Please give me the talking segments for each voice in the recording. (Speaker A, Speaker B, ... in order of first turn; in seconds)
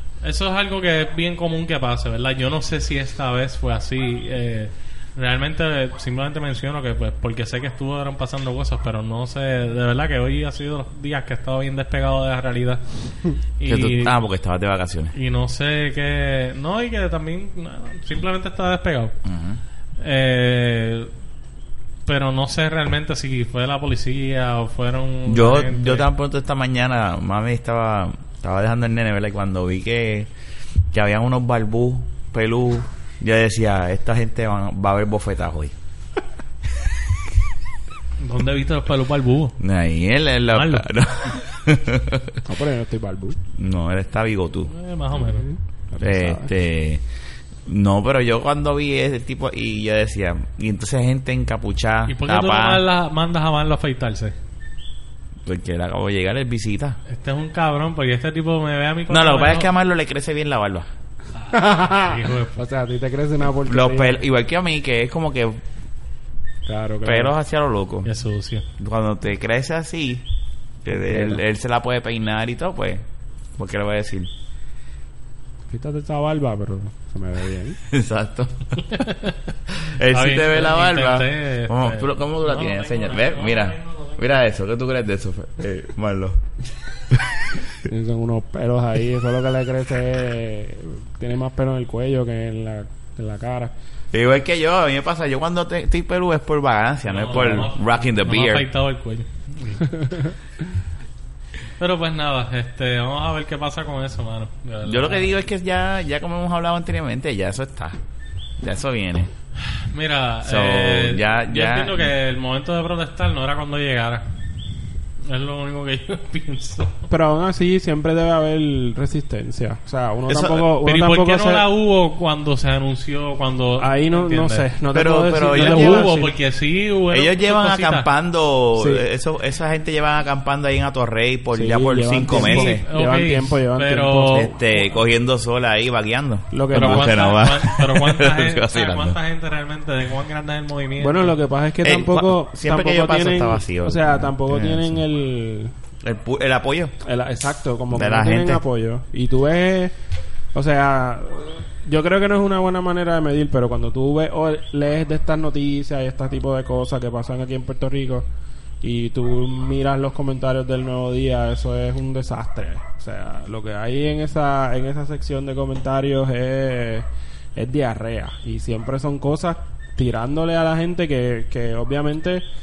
Speaker A: 0.2-14.2, 15.1-19.1, 20.0-21.1, 22.1-26.1, 38.2-39.6, 40.5-40.9, 44.7-45.5, 52.1-54.4, 57.1-59.7, 61.5-62.6, 68.0-68.7, 78.9-79.4, 80.1-84.3, 97.1-100.1, 101.8-105.3, 109.7-114.3, 115.3-117.1, 120.8-124.7, 125.5-128.1, 132.3-134.5, 136.7-141.4
Speaker B: 13.7-15.1, 19.2-19.6, 25.3-30.3, 30.9-35.7, 39.6-42.4, 43.5-44.7, 46.0-47.0, 47.7-52.8, 55.5-57.0, 59.1-60.9, 63.6-65.6, 67.0-68.1, 68.8-70.2, 70.8-73.0, 73.6-74.3, 77.9-78.8, 79.8-86.4, 87.1-87.7, 94.1-98.7, 104.8-108.0, 108.6-109.3, 110.4-112.1, 120.3-120.7, 124.9-126.1, 127.1-132.8, 134.3-139.2, 141.8-145.0, 146.0-146.9, 147.9-148.6
Speaker C: 42.5-43.4, 45.2-46.5, 61.5-64.2, 66.7-67.3, 70.9-71.4, 75.7-77.8, 87.8-93.7, 97.4-97.6, 117.1-121.7, 123.8-126.3, 128.8-129.0, 131.5-134.6, 136.5-137.2, 141.0-145.7, 147.0-149.9, 150.5-158.3, 158.8-172.4